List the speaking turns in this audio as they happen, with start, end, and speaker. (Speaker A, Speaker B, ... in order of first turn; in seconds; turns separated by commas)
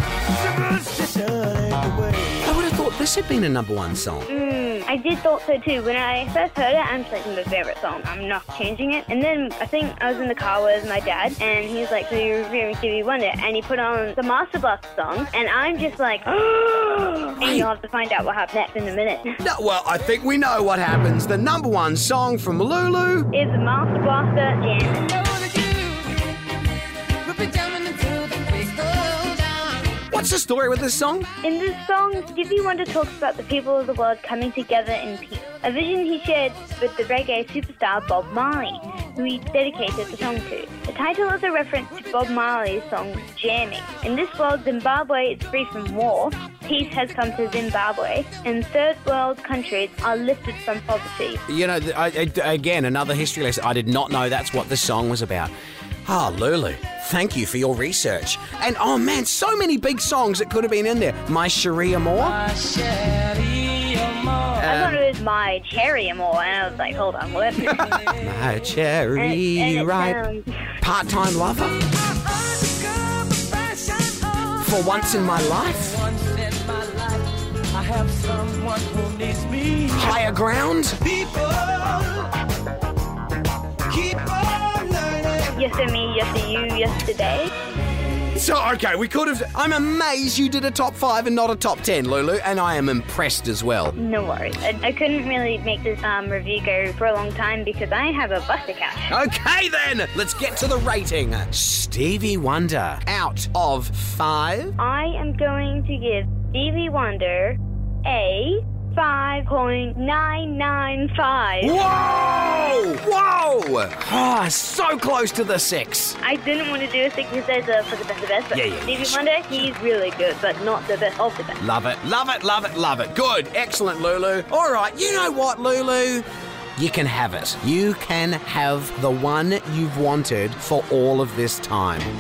Speaker A: 0.4-2.4, Speaker B: 2.4-4.3, Speaker C: 4.3-19.4, Speaker B: 17.4-17.7, Speaker B: 19.4-23.3, Speaker C: 23.3-25.1, Speaker A: 25.2-26.2, Speaker A: 27.2-29.7, Speaker B: 30.1-31.3, Speaker C: 31.4-51.4, Speaker B: 51.5-55.5, Speaker B: 56.1-62.4, Speaker A: 62.5-64.6, Speaker B: 64.6-65.0, Speaker C: 64.6-68.0, Speaker B: 67.6-70.2, Speaker C: 69.2-70.6, Speaker B: 70.8-71.8, Speaker A: 72.1-74.6, Speaker B: 74.6-76.0, Speaker A: 75.7-80.1, Speaker B: 79.9-81.0, Speaker A: 81.0-82.3, Speaker A: 83.9-85.5, Speaker C: 85.5-87.5, Speaker B: 88.3-93.9, Speaker C: 94.0-99.1, Speaker B: 99.1-104.8, Speaker C: 104.8-111.8, Speaker B: 111.6-116.2, Speaker C: 116.2-121.6, Speaker B: 118.5-119.7, Speaker B: 121.6-126.2, Speaker B: 126.8-132.1